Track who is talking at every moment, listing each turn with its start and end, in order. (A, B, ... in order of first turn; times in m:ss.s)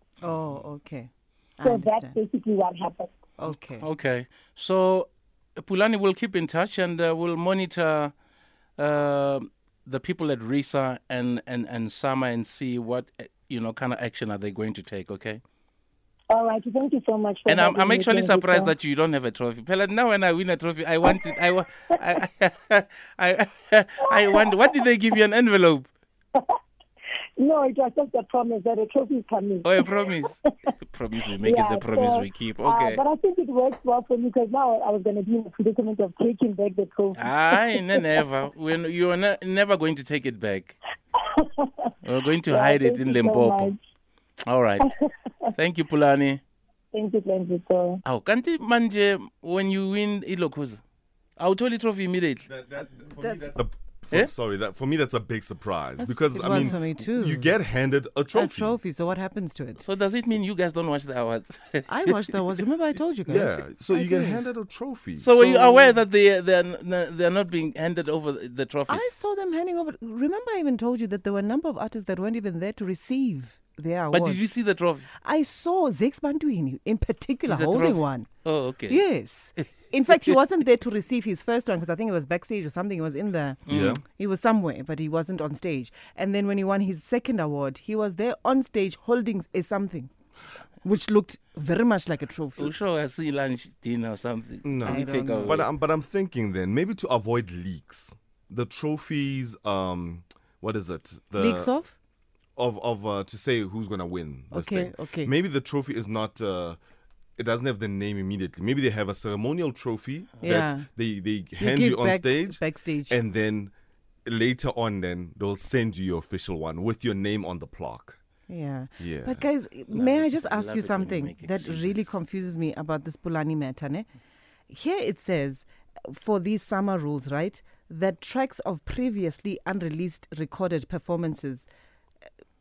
0:00.2-0:02.2 A
0:01.6-0:03.2 B
0:03.4-0:03.9 A
0:03.8-0:08.1 C
0:08.8-0:15.4 C
0:16.3-0:18.7 B
0:17.4-0:25.9 C
0:27.4-0:29.8 B
0:29.6-0:33.0 C
0:31.4-0:38.0 B
0:37.2-0:40.8 C
0:41.3-0:41.7 B
0:42.0-0:43.7 C
0:42.5-0:43.8 B
0:44.4-0:44.9 C
0:45.5-0:46.4 C
0:46.9-0:48.0 B
0:48.0-0:50.8 C
0:51.4-0:52.5 C
0:52.5-0:58.8 D
0:53.2-0:53.5 A
0:56.0-0:57.5 A
0:58.3-0:59.8 A
0:59.8-1:02.2 C
1:01.9-1:04.4 A
1:03.3-1:05.9 D
1:05.2-1:09.1 C
1:08.9-1:14.5 A
1:14.1-1:15.1 C
1:15.2-1:18.3 A
1:17.5-1:19.0 C
1:18.9-1:30.1 A
1:23.7-1:24.0 C
1:23.7-1:24.0 D
1:30.8-1:32.7 A
1:32.6-1:35.7 C
1:34.6-1:41.7 D
1:34.8-1:35.6 A
1:41.3-1:42.0 A
1:42.6-1:46.8 D
1:44.5-1:45.3 A
1:47.4-1:53.7 D
1:50.4-1:50.9 A
1:51.5-1:53.2 A
1:54.2-1:58.2 D
1:58.5-2:04.1 A
1:59.0-1:59.4 D
1:59.9-2:02.0 C
2:04.7-2:11.7 A